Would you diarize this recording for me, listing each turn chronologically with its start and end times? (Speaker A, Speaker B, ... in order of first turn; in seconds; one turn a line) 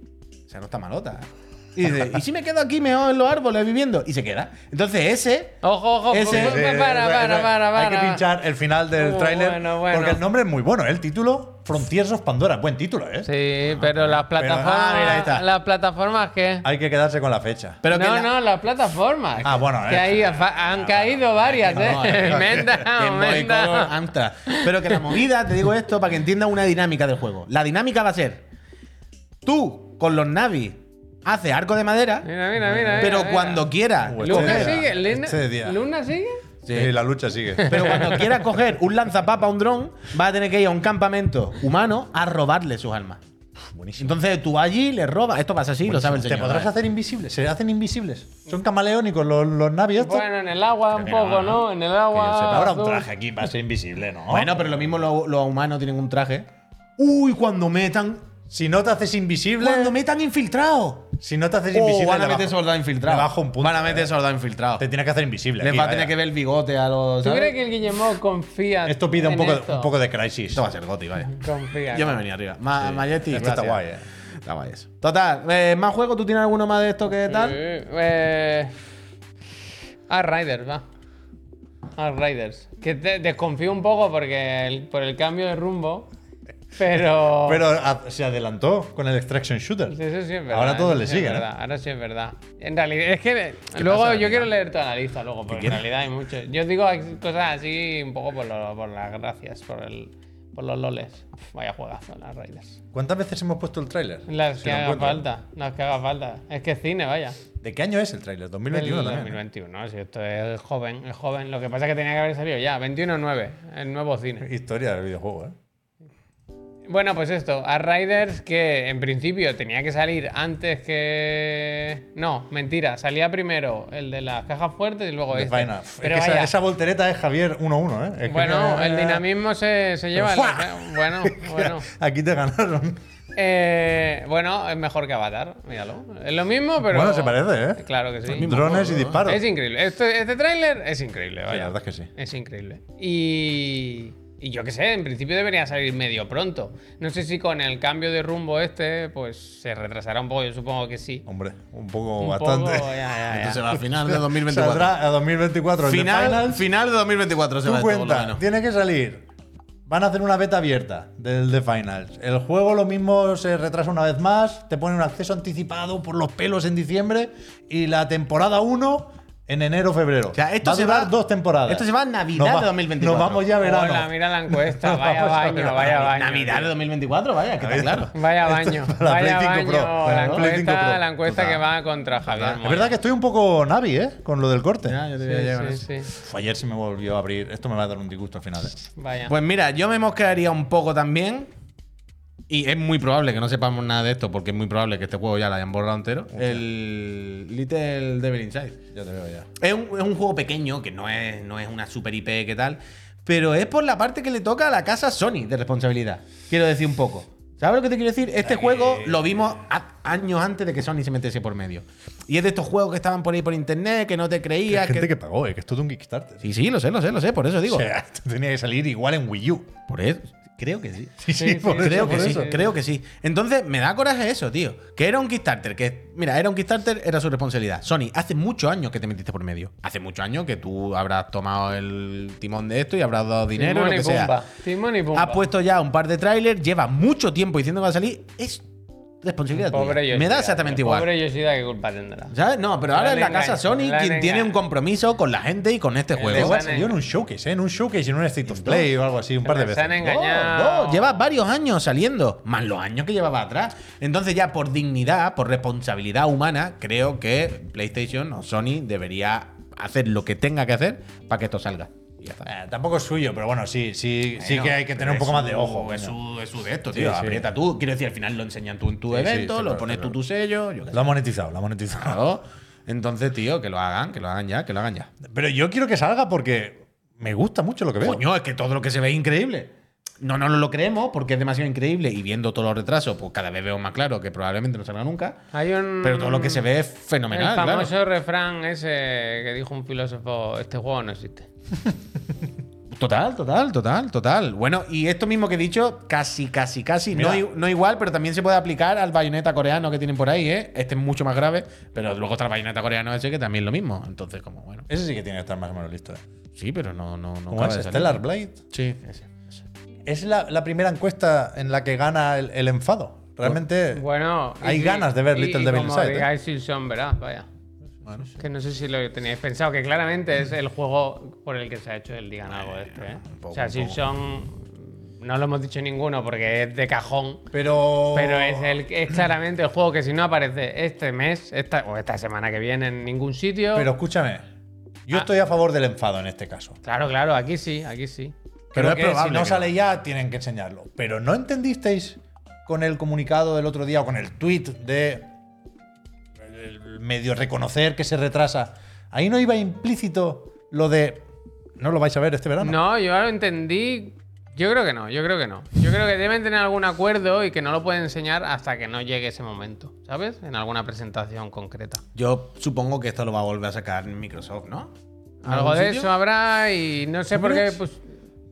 Speaker A: 0.5-5.6
Speaker B: 5.6-8.2
Speaker A: 6.1-6.6
Speaker C: 6.3-15.4
Speaker B: 8.9-10.2
Speaker B: 13.2-16.6
Speaker A: 14.7-15.4
Speaker C: 16.6-17.8
Speaker A: 17.8-18.3
Speaker B: 17.9-23.9
Speaker C: 19.4-20.4
Speaker A: 21.5-28.4
Speaker C: 21.8-22.8
Speaker B: 24.5-25.2
Speaker A: 29.4-34.9
Speaker B: 32.2-36.4
Speaker C: 34.0-35.8
Speaker A: 36.6-36.9
Speaker C: 36.7-38.0
Speaker A: 37.6-43.2
Speaker C: 43.8-44.1
Speaker A: 43.9-46.7
Speaker C: 45.8-50.2
Speaker B: 50.0-53.0
Speaker A: 50.9-52.7
Speaker C: 52.5-54.6
Speaker A: 54.3-58.3
Speaker C: 58.5-59.9
Speaker A: 59.6-61.1
Speaker C: 61.2-64.1
Speaker A: 61.7-64.8
Speaker C: 64.8-66.1
Speaker A: 65.6-67.5
Speaker B: 67.2-69.9
Speaker C: 68.8-70.7
Speaker A: 70.5-73.8
Speaker B: 71.3-72.2
Speaker C: 72.8-74.0
Speaker A: 74.4-77.6
Speaker B: 77.3-78.7
Speaker B: 80.1-80.8
Speaker B: 82.0-86.1
Speaker B: 86.8-87.6
Speaker C: 87.4-90.0
Speaker B: 89.9-102.8
Speaker C: 90.5-91.5
Speaker C: 93.8-94.5
Speaker A: 93.9-94.4
Speaker C: 102.9-105.3
Speaker B: 104.3-107.4
Speaker C: 107.6-109.4
Speaker B: 108.7-114.5
Speaker C: 114.4-115.5
Speaker B: 116.9-126.5
Speaker C: 125.3-129.2
Speaker B: 128.3-131.8
Speaker C: 130.1-133.0
Speaker B: 133.3-151.2
Speaker C: 136.8-139.4
Speaker A: 138.3-139.3
Speaker C: 141.5-142.1
Speaker C: 151.2-153.1
Speaker B: 152.2-153.8
Speaker A: 153.2-154.9
Speaker C: 153.9-156.6
Speaker A: 155.8-158.4
Speaker C: 157.6-159.2
Speaker C: 159.9-176.1
Speaker A: 170.3-171.1
Speaker A: 171.7-173.5
Speaker B: 173.6-176.7
Speaker A: 176.1-178.1
Speaker C: 177.6-181.6
Speaker B: 178.1-182.9
Speaker A: 180.0-180.5
Speaker C: 182.3-185.0
Speaker A: 184.8-185.9
Speaker B: 185.2-186.1
Speaker C: 186.1-188.8
Speaker B: 189.0-189.3
Speaker A: 189.3-191.5
Speaker A: 192.5-198.8
Speaker C: 196.3-196.6
Speaker C: 198.9-199.5
Speaker A: 199.6-215.1
Speaker C: 208.4-209.4
Speaker C: 214.7-216.4
Speaker A: 216.4-217.8
Speaker C: 217.7-219.7
Speaker A: 219.9-234.4
Speaker C: 221.2-222.5
Speaker B: 221.4-222.7
Speaker B: 233.6-235.4
Speaker A: 235.1-238.6
Speaker A: 239.2-241.1
Speaker B: 239.6-242.3
Speaker A: 242.3-246.6
Speaker B: 242.9-244.6
Speaker B: 246.2-247.0
Speaker C: 246.3-250.0
Speaker A: 248.5-248.9
Speaker B: 249.4-251.2
Speaker A: 250.0-262.5
Speaker C: 262.4-266.2
Speaker A: 264.4-271.1
Speaker C: 266.9-267.5
Speaker C: 269.1-270.1
Speaker C: 270.9-272.2
Speaker A: 272.0-275.1
Speaker C: 275.3-278.2
Speaker A: 278.0-285.4
Speaker B: 285.5-286.7
Speaker A: 286.0-287.9
Speaker B: 287.3-291.5
Speaker A: 292.9-304.9
Speaker C: 297.1-297.4
Speaker C: 304.9-306.2
Speaker A: 306.6-309.6
Speaker C: 307.5-308.6
Speaker C: 310.1-314.0
Speaker B: 313.9-317.4
Speaker C: 314.6-316.3
Speaker B: 318.4-327.4
Speaker A: 322.8-324.0
Speaker C: 327.5-328.8
Speaker B: 328.1-333.9
Speaker C: 333.7-334.4
Speaker C: 335.1-336.8
Speaker B: 336.8-338.3
Speaker C: 338.7-345.3
Speaker A: 338.7-339.7
Speaker C: 346.4-351.2
Speaker C: 351.8-352.8
Speaker B: 352.6-362.0
Speaker A: 362.1-364.9
Speaker B: 365.4-368.0
Speaker A: 365.4-366.1
Speaker C: 367.3-367.8